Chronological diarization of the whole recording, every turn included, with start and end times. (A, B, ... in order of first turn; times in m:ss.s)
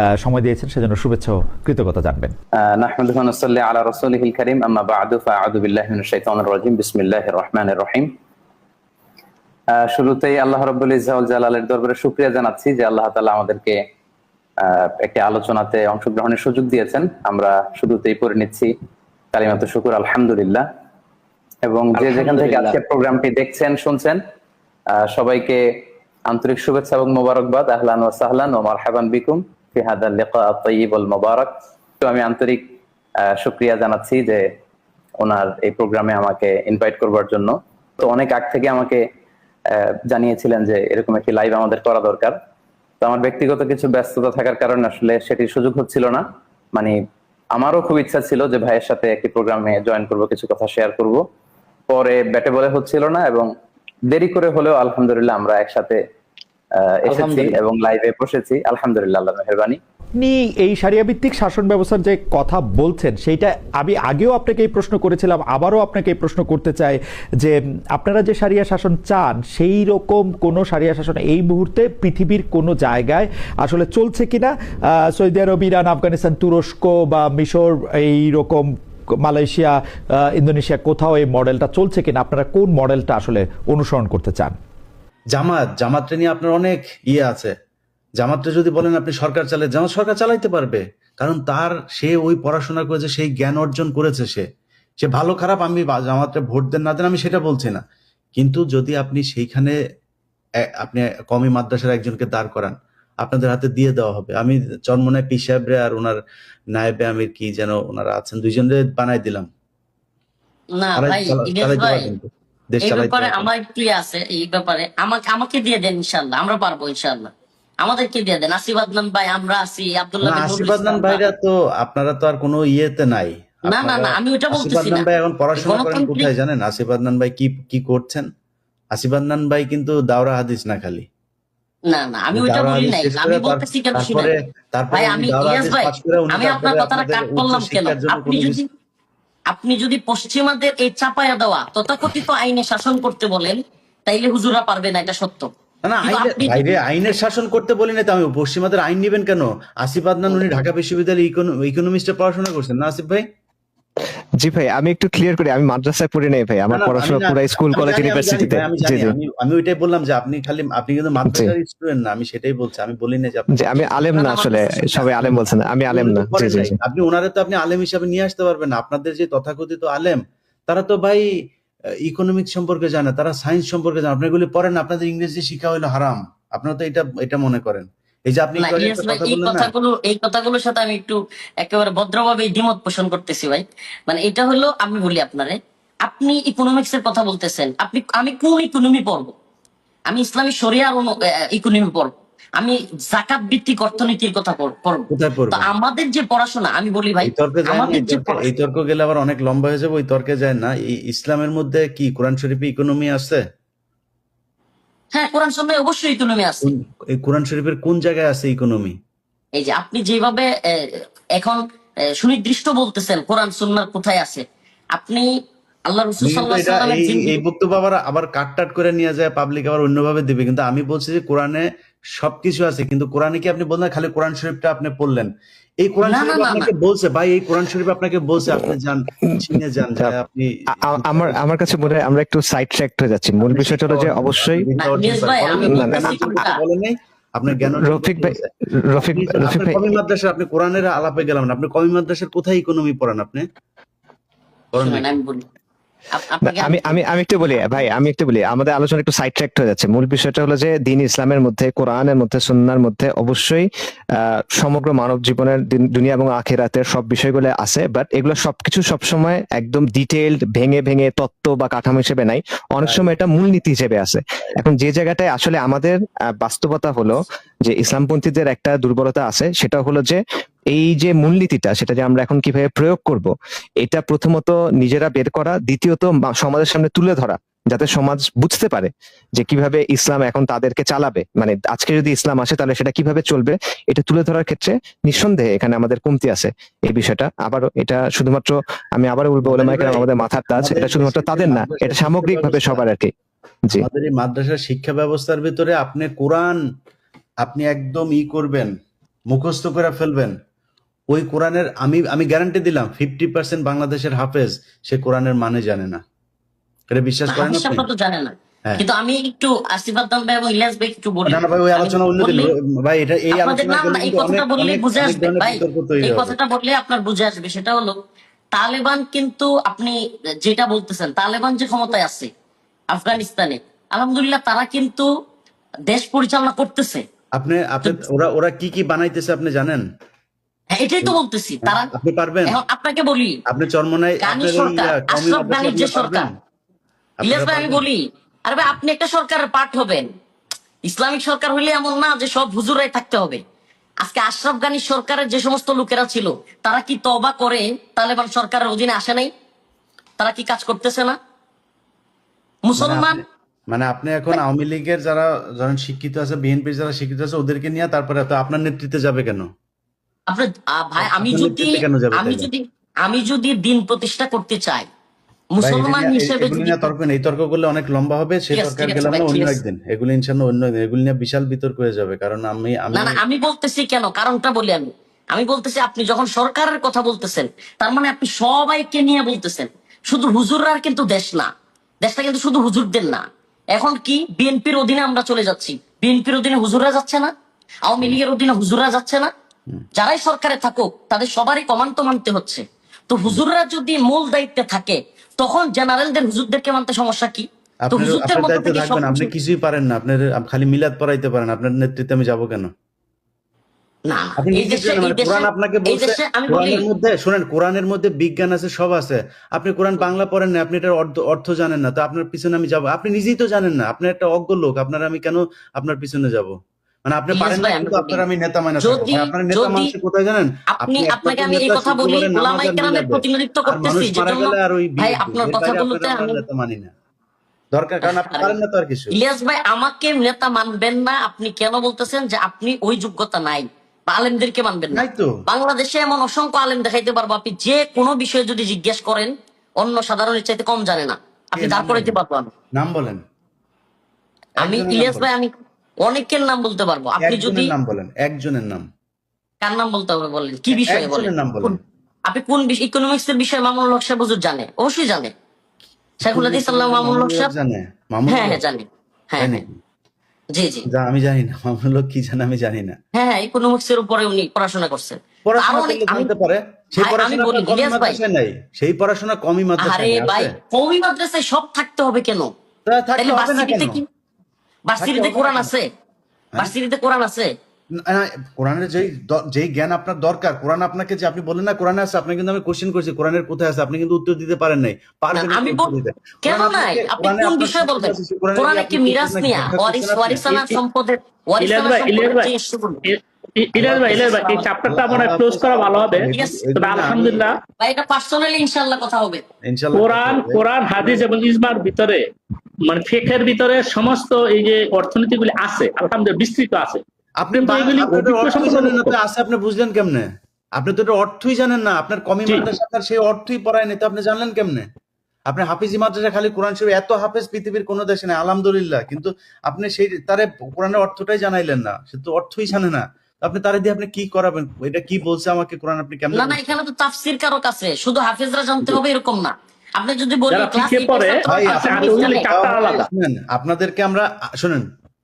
0:00.2-0:02.3 A
0:02.8-0:08.1 B
0:09.8-0:13.7 B
0:15.0-0:18.7 B
0:19.3-0:20.6 B
0:21.7-0:24.2 B
0:22.0-0:22.8 C
0:25.1-0:25.6 B
0:26.3-0:31.5 B
0:32.0-0:32.6 B
0:33.4-0:34.4 B
0:35.2-0:39.0 B
0:40.1-0:42.3 B
0:43.0-0:46.2 B
0:47.6-0:51.2 B
0:51.9-0:53.5 B
0:54.1-0:56.0 B
0:57.0-0:59.8 B
0:57.1-0:57.5 C
1:00.2-1:24.6 A
1:25.3-1:27.5 C
1:28.2-1:34.5 C
1:35.0-1:37.8 C
1:38.4-1:39.8 C
1:40.8-1:46.2 C
1:46.8-1:49.5 C
1:50.8-1:52.1 D
1:51.0-1:53.5 C
1:52.8-1:57.3 D
1:57.8-2:01.2 D
2:00.2-2:08.3 C
2:03.7-2:05.0 D
2:05.6-2:06.3 D
2:08.9-2:11.1 C
2:11.9-2:14.3 D
2:12.3-2:18.6 C
2:14.9-2:18.6 D
2:19.5-2:25.5 D
2:25.8-2:33.2 C
2:26.0-2:26.8 D
2:34.4-2:39.1 E
2:36.7-2:43.8 C
2:41.3-2:41.5 E
2:43.6-2:46.7 E
2:44.2-2:45.0 D
2:45.2-2:51.3 C
2:52.0-2:59.7 C
2:58.6-3:09.3 D
3:10.1-3:18.4 D
3:15.1-3:15.7 C
3:17.2-3:23.4 C
3:25.1-3:26.7 D
3:26.6-3:29.0 C
3:29.6-3:31.6 D
3:32.2-3:34.4 D
3:35.0-3:35.3 D
3:35.9-3:37.3 D
3:36.2-3:51.4 C
3:46.0-3:46.7 D
3:50.8-3:54.6 E
3:53.4-4:03.4 C
3:54.8-3:56.6 D
3:55.6-3:56.4 E
3:57.7-3:58.4 E
3:58.9-3:59.8 E
4:04.7-4:05.1 C
4:04.8-4:05.4 D
4:06.1-4:07.0 D
4:06.4-4:53.1 E
4:49.4-4:52.8 C
4:53.8-4:56.6 C
4:57.4-4:58.7 C
4:59.3-5:00.4 C
5:01.1-5:06.0 C
5:06.9-5:07.9 C
5:07.3-5:12.5 D
5:11.3-5:16.4 C
5:13.3-5:18.0 D
5:18.5-5:22.3 D
5:22.9-5:25.1 D
5:25.9-5:27.0 D
5:27.4-5:29.8 C
5:30.7-5:31.9 D
5:31.0-5:32.6 C
5:32.5-5:33.4 D
5:33.5-5:36.3 C
5:34.2-5:36.3 D
5:37.2-5:37.9 C
5:37.2-5:40.1 D
5:40.8-5:43.4 D
5:44.0-5:49.3 D
5:50.2-5:51.2 D
5:52.7-5:53.2 D
5:52.8-5:53.2 C
5:53.7-5:59.5 C
6:00.3-6:04.9 D
6:01.0-6:02.5 C
6:05.6-6:06.9 D
6:05.6-6:13.2 C
6:08.5-6:09.6 D
6:12.9-6:21.5 D
6:22.0-6:23.2 D
6:23.8-6:27.3 D
6:27.9-6:29.3 D
6:30.0-6:39.3 D
6:37.9-6:42.7 C
6:44.1-6:46.8 D
6:44.4-7:06.9 C
6:57.3-6:58.2 D
6:58.8-6:59.9 D
7:00.8-7:06.4 D
7:07.7-7:09.2 C
7:08.0-7:08.6 D
7:09.1-7:22.5 D
7:14.9-7:15.3 C
7:21.6-7:22.2 C
7:22.8-7:23.2 C
7:24.6-7:25.3 C
7:24.6-7:25.5 D
7:26.0-7:27.7 D
7:27.2-7:28.8 C
7:29.6-7:35.3 D
7:30.7-7:31.8 C
7:36.2-7:38.6 C
7:36.2-7:37.5 D
7:38.3-7:39.6 D
7:39.4-7:39.8 C
7:40.6-7:40.8 D
7:40.9-7:43.0 C
7:43.2-7:46.3 D
7:45.5-7:50.5 C
7:47.0-7:48.2 D
7:49.8-7:52.5 D
7:52.9-7:54.0 C
7:53.2-7:54.1 D
7:54.9-7:55.9 D
7:55.0-7:55.7 C
7:56.6-7:57.5 D
7:58.0-8:10.5 C
8:05.3-8:05.9 D
8:06.4-8:13.0 D
8:10.5-8:10.8 F
8:11.6-8:12.5 F
8:13.0-8:17.6 F
8:13.8-8:17.5 C
8:14.1-8:14.7 D
8:16.3-8:16.6 D
8:17.8-8:19.4 D
8:19.6-8:21.2 C
8:19.9-8:22.2 F
8:22.9-8:27.0 F
8:27.4-8:30.3 C
8:27.6-8:29.2 F
8:30.8-8:34.9 C
8:35.5-8:46.7 C
8:46.4-8:52.5 D
8:50.5-8:53.0 F
8:51.5-8:54.9 C